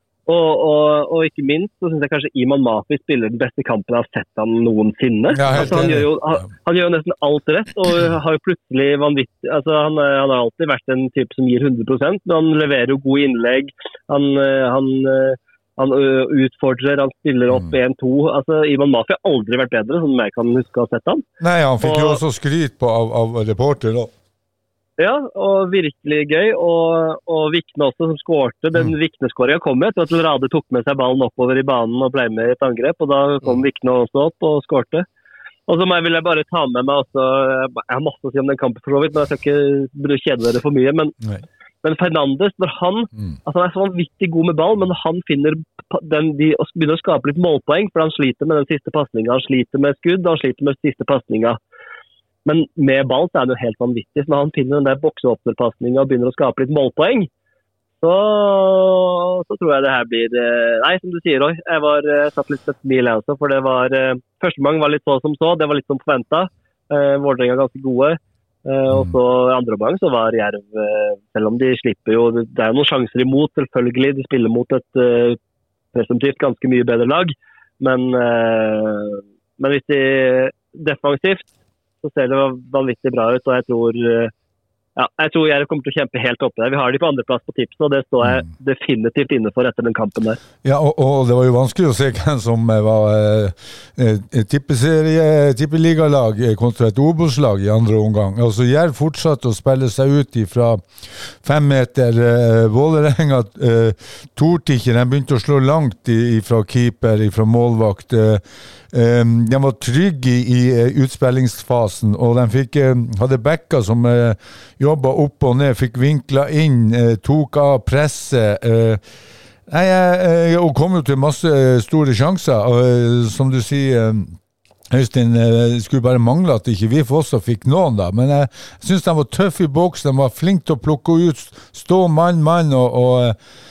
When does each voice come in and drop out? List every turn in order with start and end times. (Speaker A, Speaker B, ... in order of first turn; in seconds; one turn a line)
Speaker A: 0.2-21.2
Speaker B: 5.3-6.1
Speaker B: 21.4-24.1
Speaker A: 21.8-22.2
Speaker A: 25.0-35.0
Speaker A: 35.7-41.1
Speaker A: 41.8-51.6
Speaker A: 52.5-57.3
Speaker A: 58.0-75.4
Speaker B: 68.9-69.2
Speaker A: 75.9-81.5
Speaker A: 82.0-84.3
Speaker A: 85.0-90.4
Speaker B: 90.6-119.0
Speaker B: 119.7-124.4
Speaker B: 124.9-133.4